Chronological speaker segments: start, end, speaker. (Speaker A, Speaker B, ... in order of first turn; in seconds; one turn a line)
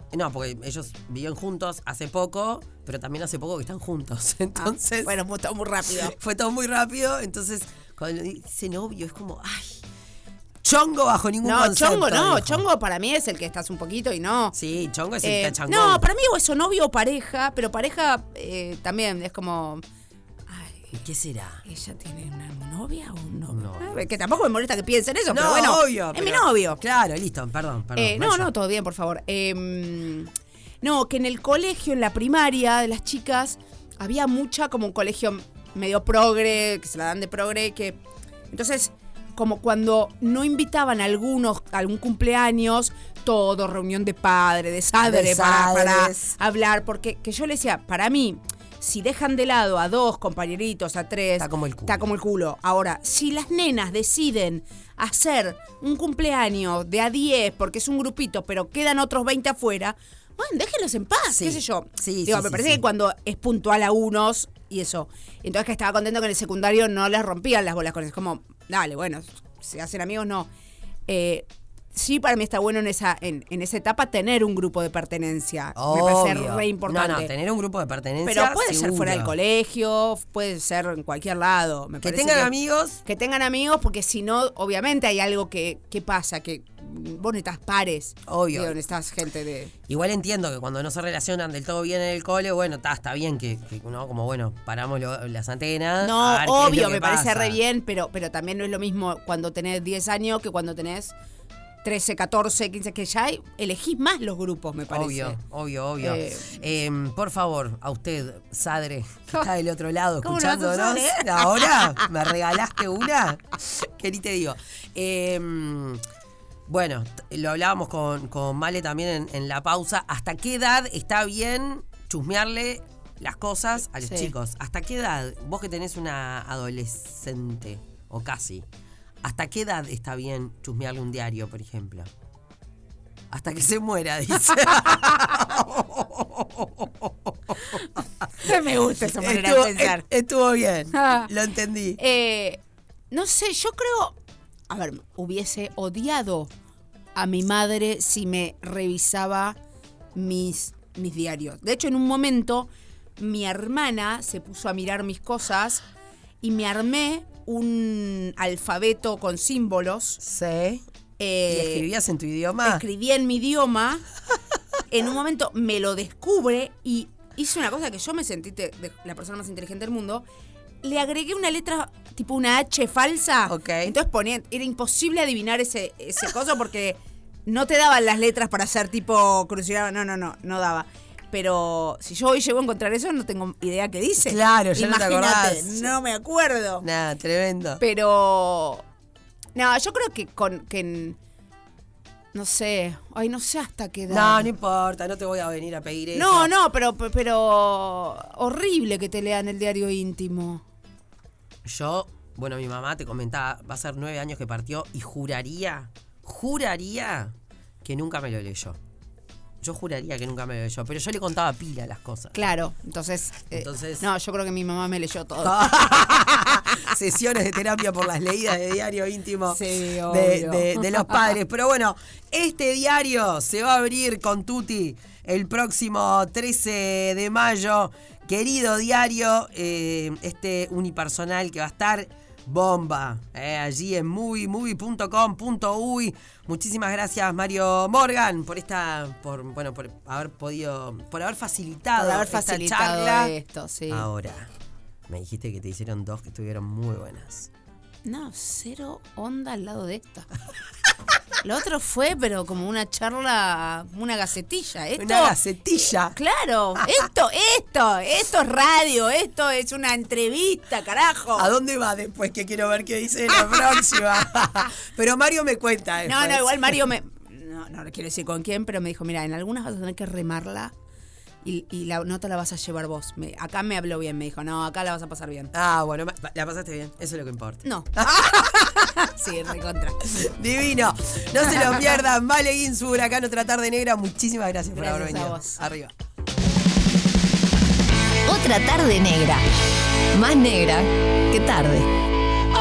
Speaker A: 0.1-5.1
Speaker B: 4.5-6.2
Speaker A: 6.0-9.8
Speaker A: 10.6-12.7
Speaker B: 11.4-14.6
Speaker A: 14.5-16.1
Speaker B: 15.2-19.8
Speaker B: 20.5-21.0
Speaker A: 20.9-21.6
Speaker B: 21.6-26.8
Speaker A: 23.5-24.1
Speaker A: 25.3-28.5
Speaker B: 28.0-38.0
Speaker B: 38.5-70.5
Speaker A: 45.0-46.4
Speaker A: 51.4-52.1
Speaker A: 61.3-62.8
Speaker B: 71.1-77.3
Speaker A: 75.8-79.3
Speaker B: 78.2-82.5
Speaker A: 82.0-83.0
Speaker B: 83.0-89.7
Speaker A: 88.3-88.8
Speaker A: 89.9-97.6
Speaker B: 96.0-101.2
Speaker B: 101.8-105.4
Speaker A: 104.9-116.0
Speaker B: 106.0-106.6
Speaker B: 110.2-112.1
Speaker A: 116.7-128.7
Speaker B: 124.0-124.3
Speaker A: 129.2-132.1
Speaker A: 133.3-142.0
Speaker B: 138.4-140.0
Speaker B: 141.0-141.3
Speaker B: 142.0-144.2
Speaker B: 144.7-146.5
Speaker B: 147.2-149.6
Speaker B: 150.1-155.8
Speaker B: 156.4-160.2
Speaker A: 160.2-160.8
Speaker B: 161.2-161.9
Speaker A: 161.5-162.8
Speaker B: 162.6-164.1
Speaker B: 164.9-170.3
Speaker B: 170.8-186.8
Speaker A: 173.5-173.9
Speaker A: 184.2-185.9
Speaker A: 186.8-187.8
Speaker B: 187.8-188.8
Speaker B: 189.6-191.2
Speaker B: 192.3-194.5
Speaker A: 194.1-196.5
Speaker B: 196.1-200.6
Speaker A: 201.7-208.8
Speaker A: 209.6-212.4
Speaker B: 212.3-216.8
Speaker A: 213.5-214.1
Speaker A: 215.4-243.3
Speaker B: 219.5-221.1
Speaker B: 242.0-244.1
Speaker A: 243.9-244.5
Speaker A: 245.1-247.5
Speaker B: 248.1-250.3
Speaker B: 251.4-255.4
Speaker A: 255.0-256.2
Speaker B: 256.0-261.5
Speaker A: 261.4-266.9
Speaker B: 266.1-270.7
Speaker B: 271.4-275.5
Speaker A: 275.5-278.7
Speaker B: 277.6-280.1
Speaker A: 280.1-285.9
Speaker B: 281.5-281.9
Speaker B: 284.8-285.6
Speaker C: 288.3-289.4
Speaker C: 290.1-291.9